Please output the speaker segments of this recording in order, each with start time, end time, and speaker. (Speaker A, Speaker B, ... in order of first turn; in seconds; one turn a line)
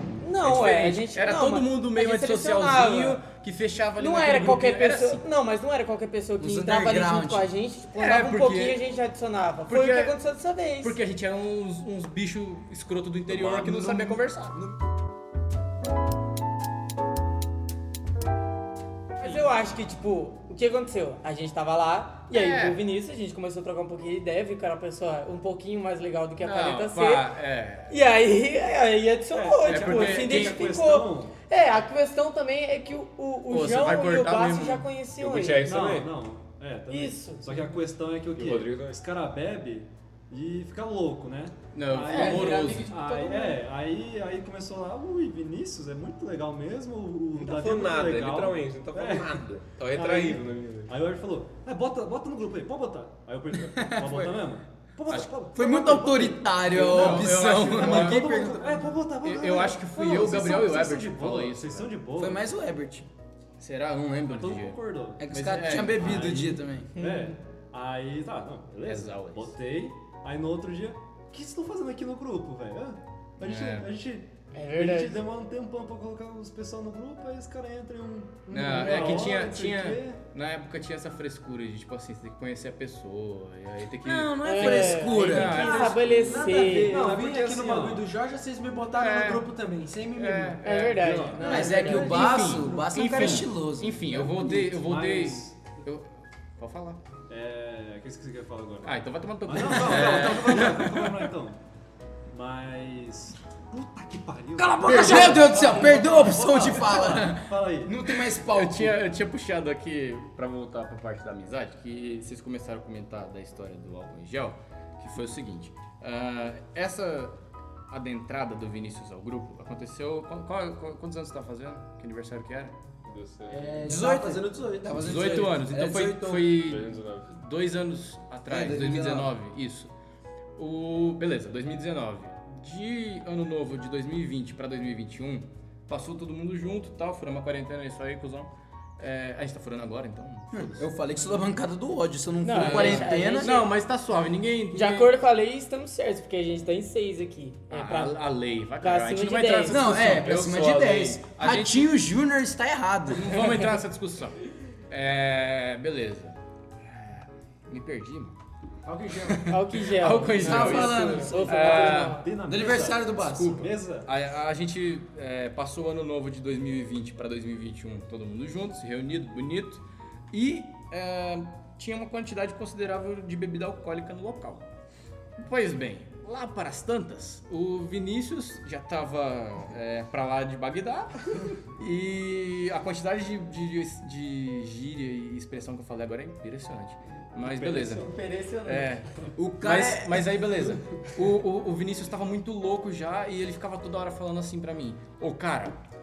Speaker A: 0.2-3.2
Speaker B: 0.4-5.2
Speaker A: 4.0-11.0
Speaker C: 6.4-7.5
Speaker B: 8.0-8.8
Speaker B: 9.7-10.2
Speaker B: 10.8-14.6
Speaker D: 13.3-14.2
Speaker A: 19.2-27.3
Speaker B: 22.3-22.8
Speaker B: 26.4-28.0
Speaker A: 27.9-35.6
Speaker E: 29.3-31.3
Speaker B: 29.7-30.7
Speaker B: 33.5-34.9
Speaker F: 35.2-36.1
Speaker E: 35.6-49.4
Speaker A: 36.9-37.6
Speaker F: 38.4-39.0
Speaker B: 41.7-43.0
Speaker D: 42.1-43.5
Speaker A: 42.1-42.8
Speaker F: 47.4-50.9
Speaker A: 50.0-50.4
Speaker E: 50.9-62.5
Speaker C: 53.7-54.4
Speaker C: 55.5-58.6
Speaker B: 56.6-58.5
Speaker B: 59.2-61.9
Speaker C: 62.2-63.1
Speaker B: 63.6-66.4
Speaker E: 64.3-65.2
Speaker C: 65.2-66.9
Speaker E: 66.0-80.2
Speaker A: 67.0-67.4
Speaker B: 68.8-69.5
Speaker B: 73.4-73.9
Speaker A: 74.5-75.2
Speaker B: 78.5-86.6
Speaker C: 84.0-85.7
Speaker A: 84.4-87.0
Speaker D: 85.3-90.6
Speaker E: 86.7-88.1
Speaker B: 88.9-89.5
Speaker B: 90.1-91.4
Speaker A: 90.6-92.3
Speaker E: 91.0-91.8
Speaker C: 91.4-94.2
Speaker D: 91.4-93.4
Speaker B: 91.9-97.0
Speaker E: 94.1-95.6
Speaker E: 97.3-101.6
Speaker B: 98.8-101.3
Speaker E: 102.3-108.0
Speaker C: 104.6-109.0
Speaker D: 104.8-105.6
Speaker B: 104.9-105.5
Speaker B: 108.2-117.3
Speaker B: 117.9-122.8
Speaker F: 123.0-123.9
Speaker D: 123.5-125.5
Speaker C: 123.8-126.5
Speaker B: 124.9-129.9
Speaker F: 126.5-127.3
Speaker C: 128.5-129.3
Speaker B: 130.6-140.9
Speaker C: 140.5-143.7
Speaker A: 142.4-143.6
Speaker B: 142.6-145.1
Speaker A: 144.7-148.2
Speaker B: 147.7-150.6
Speaker A: 148.8-149.9
Speaker C: 149.7-153.3
Speaker F: 150.0-151.2
Speaker B: 151.4-151.9
Speaker B: 153.1-158.4
Speaker D: 158.8-159.5
Speaker B: 159.2-162.2
Speaker A: 159.5-162.3
Speaker C: 160.4-161.4
Speaker E: 160.7-164.1
Speaker C: 162.5-163.7
Speaker B: 163.2-174.7
Speaker B: 175.4-188.1
Speaker E: 187.4-188.1
Speaker D: 188.1-188.8
Speaker B: 188.7-189.1
Speaker C: 189.4-190.3
Speaker B: 189.6-195.8